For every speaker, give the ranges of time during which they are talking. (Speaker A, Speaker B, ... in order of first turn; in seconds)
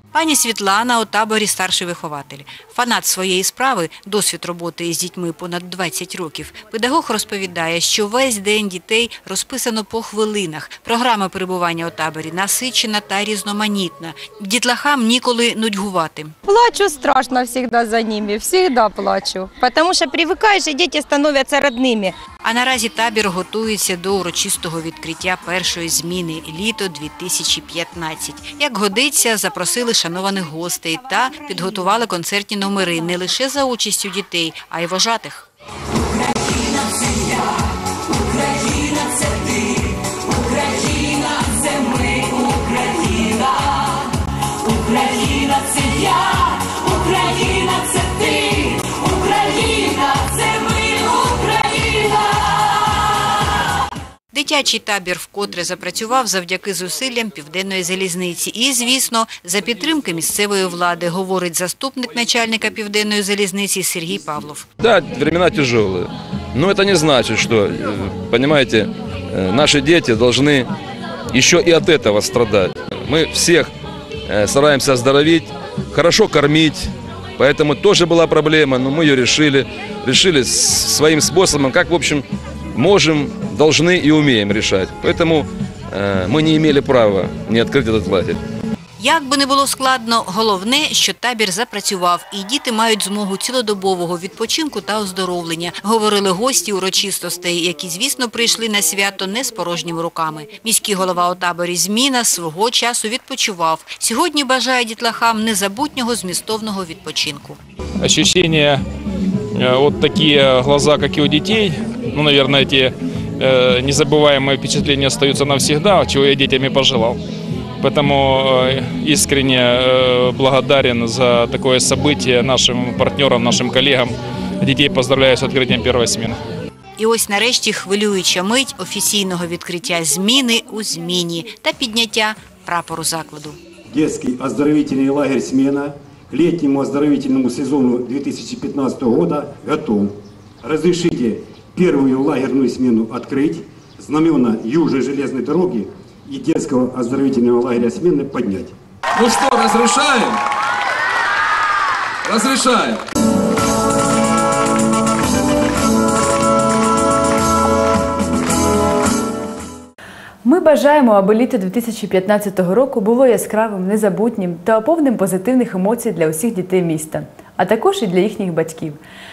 Speaker A: 0.1-16.4, 22.4-35.5, 54.3-64.7, 89.0-107.6, 127.0-133.6
Speaker B: 16.4-22.2
Speaker C: 64.8-70.7, 71.3-73.7, 74.3-88.4, 149.2-150.3, 152.3-153.0
Speaker D: 108.0-108.8, 109.5-117.2, 117.8-126.4
Speaker E: 133.9-148.8
Speaker F: 160.4-169.0